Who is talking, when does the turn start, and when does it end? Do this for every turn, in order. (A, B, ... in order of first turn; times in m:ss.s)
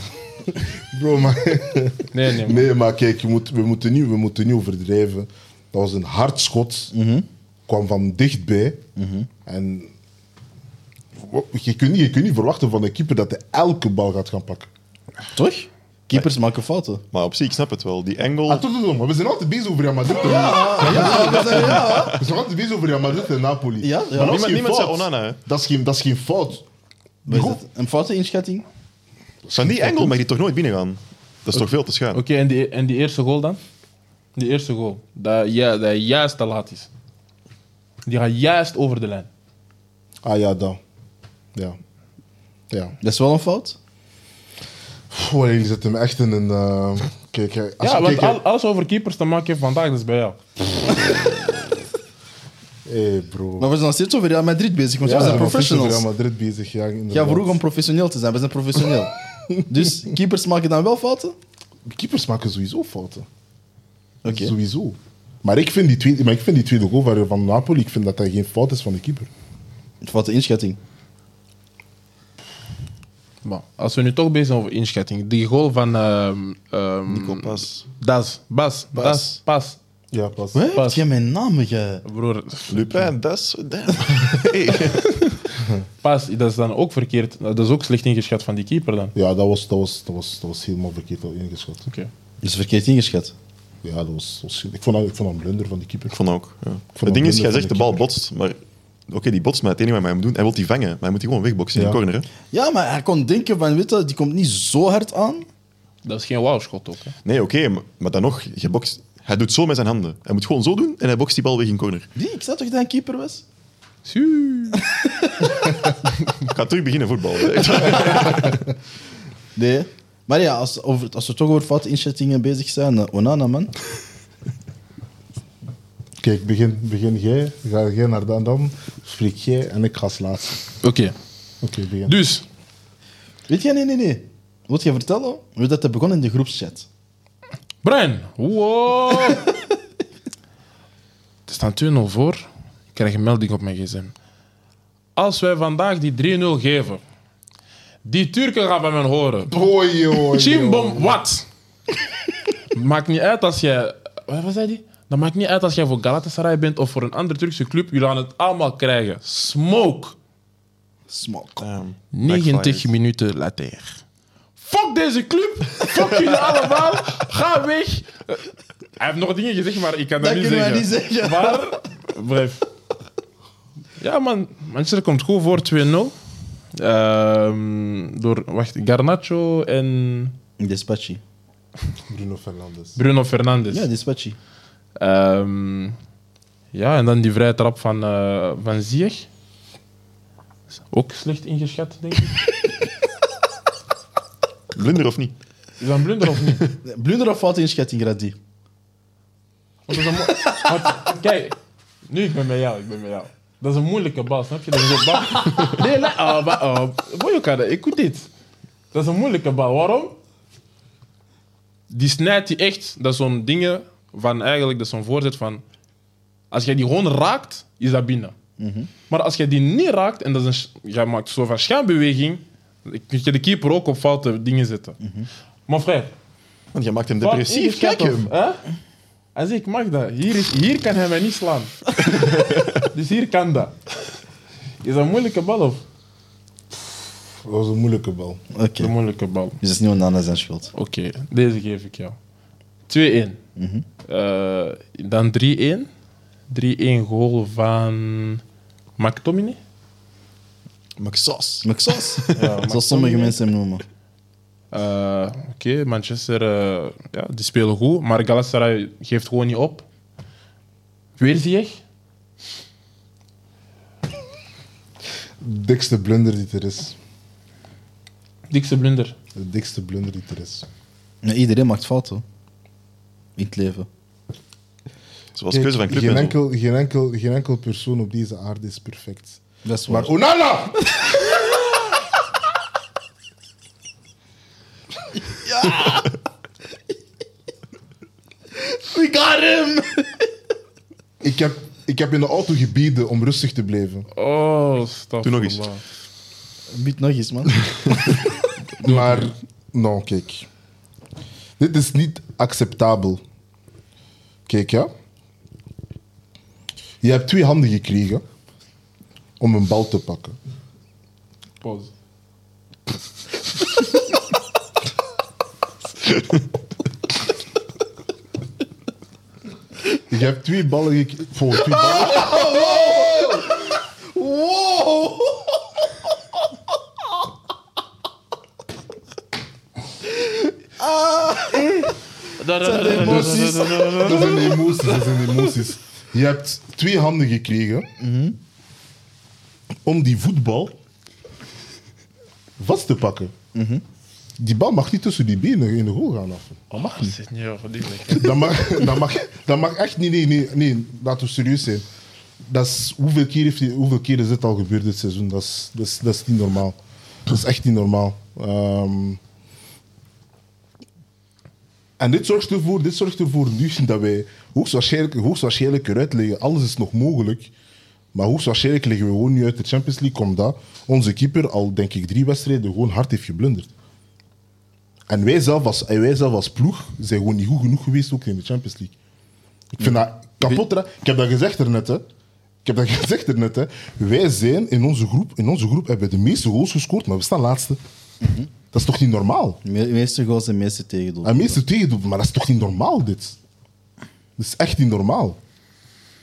0:00.6-0:06.9 A
0:02.1-0:02.7 B
0:06.9-0:07.2 C
0:07.7-0:08.8 A
0:09.0-0:09.3 C
0:09.4-0:09.9 A
0:11.2-0:14.7 A
0:15.3-0:17.0 C
0:17.1-0:18.6 D
0:18.5-0:26.6 A
0:20.1-0:22.2 C
0:20.8-0:22.2 D
0:23.8-0:24.4 C
0:24.2-0:25.4 D
0:27.2-0:27.6 A
0:27.2-0:28.6 C
0:29.5-0:30.1 A
0:29.5-0:32.2 D
0:32.1-0:33.6 B
0:34.4-0:36.9 B
0:38.0-0:39.3 B
0:40.2-0:40.8 A
0:42.7-0:43.0 A
0:43.0-0:43.8 C
0:45.1-0:48.4 A
0:47.8-0:50.4 B
0:52.8-0:53.7 A
0:53.6-0:56.1 C
0:55.0-0:57.6 A
0:57.1-0:59.1 C
0:59.6-1:01.3 C
1:01.9-1:03.3 A
1:04.2-1:04.5 C
1:04.2-1:09.3 A
1:10.0-1:10.8 C
1:13.4-1:19.8 B
1:17.1-1:17.8 D
1:18.9-1:19.4 C
1:20.1-1:20.7 A
1:20.5-1:22.0 C
1:20.7-1:21.0 B
1:22.0-1:23.1 B
1:22.7-1:25.2 D
1:25.6-1:25.8 A
1:26.0-1:29.1 B
1:29.1-1:31.8 A
1:32.4-1:33.3 C
1:33.8-1:36.2 A
1:36.1-1:42.3 D
1:37.0-1:38.0 A
1:41.7-1:42.0 A
1:42.5-1:45.5 C
1:46.0-1:47.1 B
1:47.2-1:52.1 D
1:52.2-1:53.4 C
1:54.0-1:54.8 B
1:54.7-1:55.7 C
1:56.4-1:58.6 D
1:59.6-2:03.7 C
2:06.2-2:10.6 A
2:10.8-2:11.1 B
2:11.6-2:12.2 A
2:12.0-2:12.4 B
2:13.5-2:16.9 C
2:17.8-2:19.5 B
2:21.5-2:24.1 B
2:25.2-2:27.0 B
2:28.0-2:29.5 B
2:29.5-2:31.1 A
2:30.2-2:31.4 B
2:32.7-2:40.2 B
2:41.1-2:41.7 C
2:41.6-2:42.9 D
2:42.1-2:44.0 B
2:44.6-2:48.4 B
2:49.0-2:52.6 B
2:50.2-2:51.8 C
2:54.0-2:56.1 B
2:56.7-3:00.3 B
3:00.6-3:01.2 C
3:02.1-3:03.0 A
3:03.0-3:03.9 B
3:03.7-3:04.4 C
3:05.0-3:06.0 B
3:06.7-3:09.3 B
3:10.9-3:12.4 B
3:14.7-3:15.3 D
3:15.8-3:16.7 B
3:16.8-3:18.4 C
3:19.9-3:21.6 B
3:22.1-3:28.3 B
3:28.9-3:30.2 B
3:31.9-3:35.6 B
3:36.5-3:38.3 B
3:38.6-3:38.9 C
3:39.1-3:45.0 B
3:45.0-3:45.3 C
3:45.7-3:46.1 B
3:46.7-3:48.3 D
3:47.2-3:48.6 B
3:49.3-3:53.7 B
3:52.1-3:52.7 D
3:54.8-3:55.8 B
3:57.4-3:58.4 A
3:58.5-3:58.9 C
3:58.8-3:59.6 B
3:59.6-4:00.7 C
4:00.7-4:02.2 B
4:02.9-4:03.4 B
4:03.6-4:03.8 C
4:04.0-4:05.9 B
4:06.5-4:08.4 B
4:09.0-4:09.6 B
4:11.0-4:12.3 D
4:11.6-4:13.8 C
4:12.3-4:13.4 B
4:14.7-4:19.8 B
4:21.2-4:21.8 B
4:25.4-4:27.0 A
4:28.5-4:29.1 B
4:29.4-4:30.6 A
4:31.2-4:32.2 C
4:33.4-4:33.9 C
4:35.3-4:36.4 D
4:35.5-4:41.2 A
4:39.6-4:40.1 C
4:45.3-4:46.1 C
4:48.6-4:50.2 C
4:51.2-4:54.1 A
4:54.1-4:55.8 B
4:55.2-4:55.6 D
4:56.7-4:57.7 C
4:58.8-5:00.5 A
4:58.8-4:59.3 B
5:01.6-5:03.2 A
5:04.5-5:04.9 A
5:07.0-5:08.2 A
5:09.4-5:10.4 A
5:11.6-5:11.9 B
5:20.1-5:22.6 A
5:21.8-5:25.6 C
5:30.2-5:31.9 C
5:32.3-5:35.2 B
5:32.5-5:34.4 C
5:32.9-5:37.9 A
5:38.0-5:38.4 C
5:39.8-5:40.7 A
5:42.6-5:43.3 A
5:43.5-5:43.8 C
5:44.4-5:47.2 A
5:46.8-5:48.6 B
5:48.1-5:51.8 A
5:52.4-5:59.2 A
6:02.0-6:07.5 A
6:08.1-6:13.7 A
6:15.1-6:18.9 A
6:19.7-6:22.0 A
6:22.6-6:27.8 A
6:28.2-6:28.5 C
6:28.7-6:29.6 A
6:29.6-6:31.6 C
6:31.2-6:33.4 A
6:34.4-6:35.4 A